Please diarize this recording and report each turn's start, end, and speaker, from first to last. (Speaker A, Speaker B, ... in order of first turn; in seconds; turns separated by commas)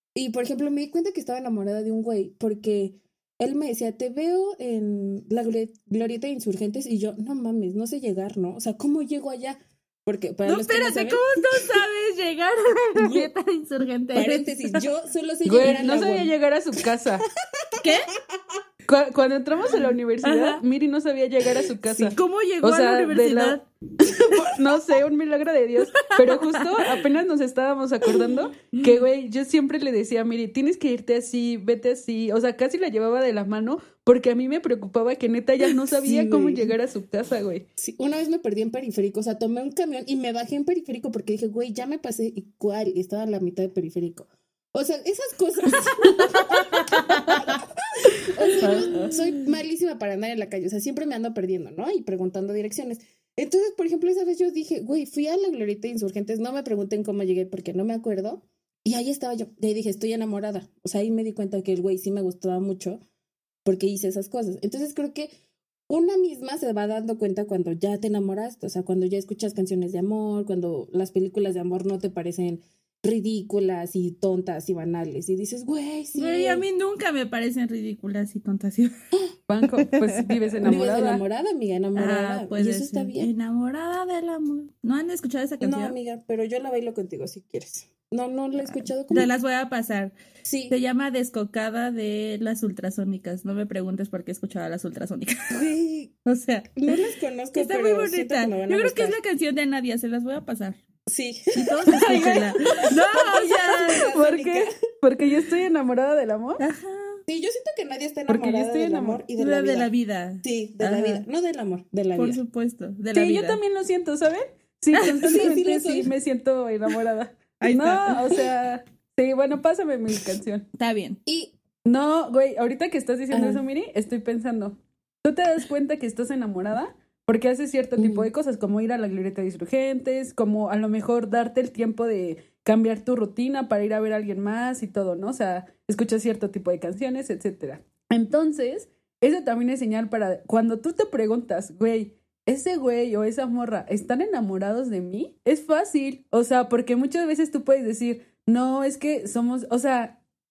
Speaker A: 0.1-11.8, Speaker B: 10.4-14.8, Speaker A: 12.9-13.3, Speaker A: 14.1-16.3, Speaker C: 15.4-17.2, Speaker A: 17.5-17.8, Speaker B: 17.8-18.1, Speaker C: 18.9-37.6, Speaker B: 20.2-20.6, Speaker B: 21.9-24.5, Speaker B: 25.9-26.9, Speaker A: 36.0-36.7, Speaker A: 37.8-63.0, Speaker B: 46.8-47.3, Speaker C: 46.9-47.4, Speaker B: 48.6-49.2, Speaker C: 48.6-49.2, Speaker A: 63.6-65.3, Speaker A: 65.9-76.6, Speaker B: 76.1-78.9, Speaker C: 79.5-81.2, Speaker B: 79.8-80.2, Speaker A: 80.6-83.3, Speaker B: 81.9-86.0, Speaker A: 85.6-89.3, Speaker B: 89.1-90.1, Speaker A: 90.4-90.7, Speaker B: 90.7-95.7, Speaker A: 95.5-96.1, Speaker B: 96.2-96.9, Speaker A: 96.8-99.2, Speaker B: 97.5-100.8, Speaker A: 101.1-102.5, Speaker B: 101.5-104.1, Speaker C: 101.9-102.9, Speaker A: 103.0-104.7, Speaker C: 103.8-106.6, Speaker B: 106.6-107.2, Speaker A: 107.3-109.9, Speaker C: 108.3-109.2, Speaker B: 109.4-111.2, Speaker A: 110.4-112.4, Speaker B: 112.2-113.6, Speaker C: 113.1-120.7, Speaker B: 114.9-115.4, Speaker A: 115.2-116.1, Speaker B: 117.6-118.4, Speaker B: 120.7-121.2, Speaker A: 121.2-121.5, Speaker C: 121.8-150.2, Speaker A: 123.3-123.6, Speaker A: 128.0-128.3